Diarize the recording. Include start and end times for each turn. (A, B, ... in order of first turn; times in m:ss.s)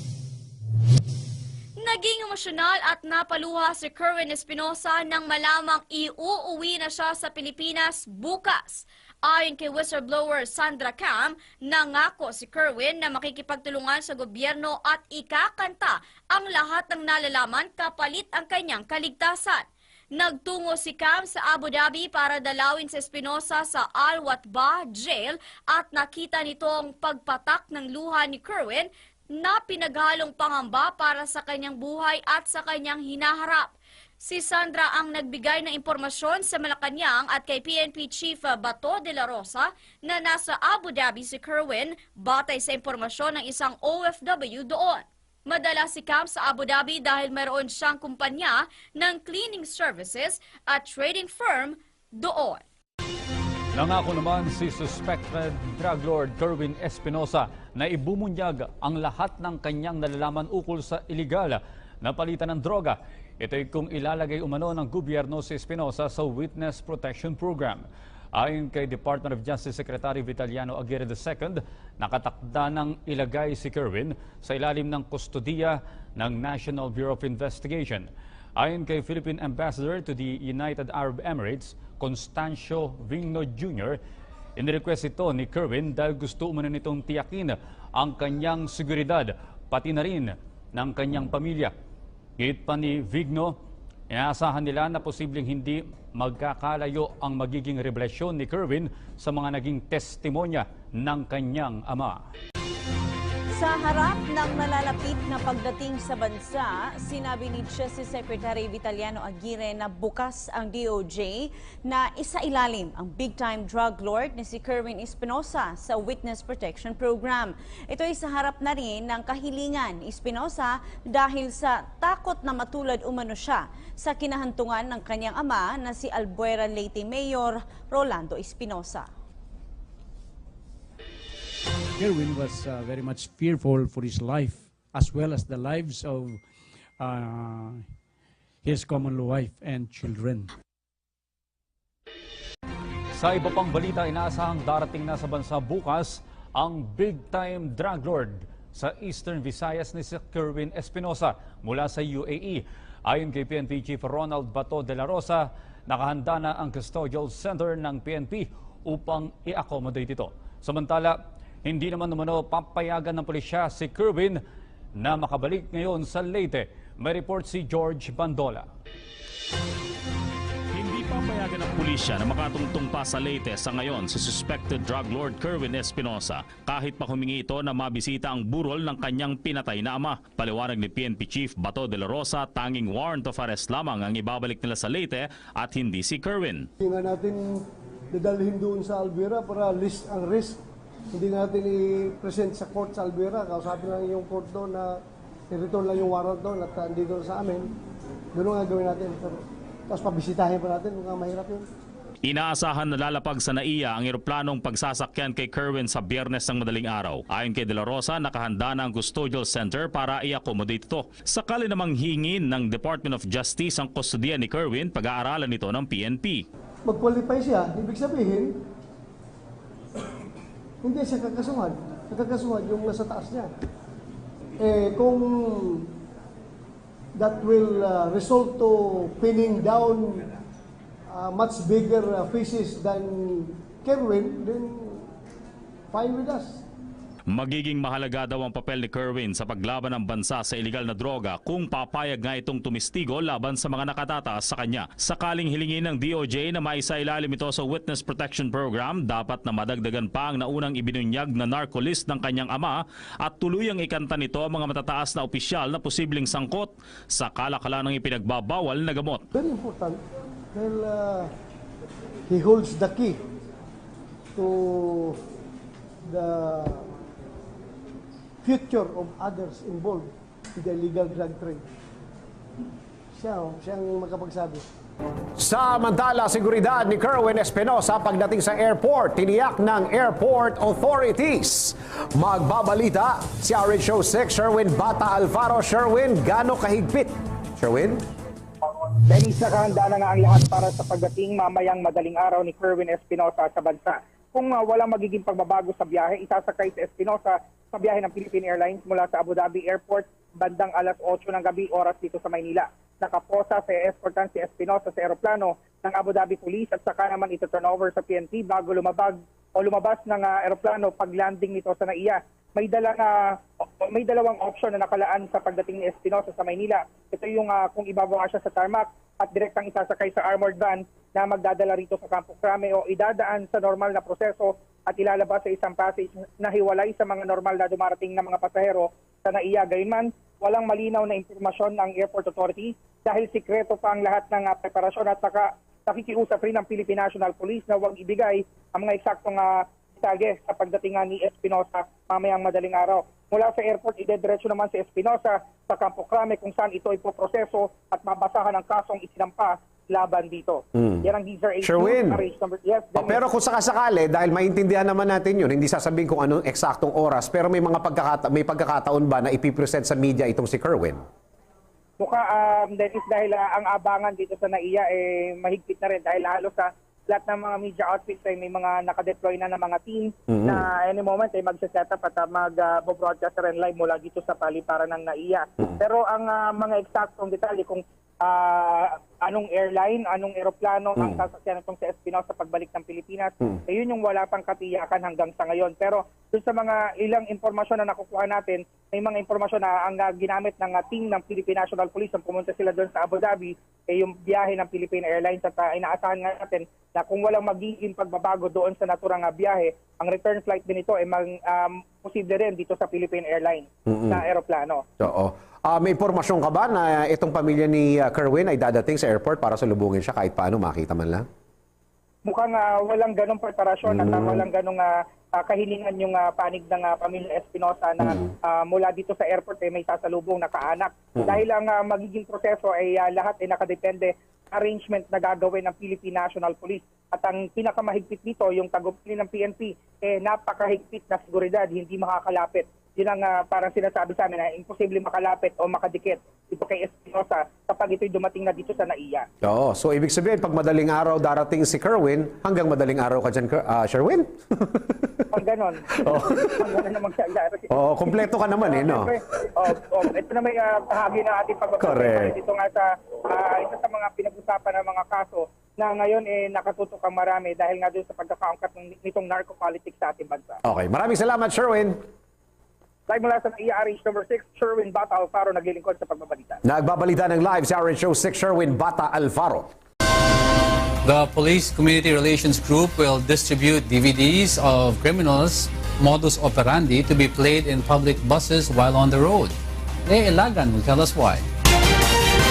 0:01.8-0:52.6 A
0:53.7-1:24.0 B
1:24.6-1:31.7 B
1:32.4-1:33.6 B
1:34.1-1:42.2 B
1:43.5-2:09.1 C
2:12.0-2:16.4 D
2:17.0-2:17.9 D
2:18.6-2:20.5 D
2:23.1-2:44.4 B
2:45.0-2:48.7 B
2:50.7-3:06.7 E
3:06.8-3:10.6 F
3:11.1-3:15.0 F
3:15.5-3:17.7 F
3:18.3-3:21.7 F
3:22.3-3:36.4 E
3:36.8-3:38.5 F
3:40.8-3:43.5 F
3:44.6-3:45.9 F
3:47.2-3:50.2 F
3:51.1-3:55.1 F
3:55.9-3:56.6 F
3:57.3-4:19.2 E
4:19.3-4:20.0 F
4:20.5-4:21.3 F
4:22.3-4:23.2 F
4:24.4-4:25.2 F
4:26.1-4:26.9 F
4:28.4-4:31.6 F
4:33.2-4:34.6 F
4:35.4-4:48.0 G
4:49.1-5:13.2 H
5:13.8-5:53.2 H
5:50.8-5:51.0 G
5:51.6-5:52.2 G
5:53.0-6:01.0 G
6:02.0-6:44.8 H
6:43.9-6:44.2 G
6:45.0-6:51.3 G
6:52.2-7:19.3 H
6:53.9-6:54.4 G
7:19.4-7:25.1 G
7:25.3-7:40.6 H
7:26.0-7:26.6 G
7:27.7-7:29.1 G
7:31.8-7:32.4 G
7:40.6-7:42.0 G
7:43.1-7:46.6 H
7:46.6-7:49.7 G
7:51.0-7:59.6 I
8:00.1-8:01.4 I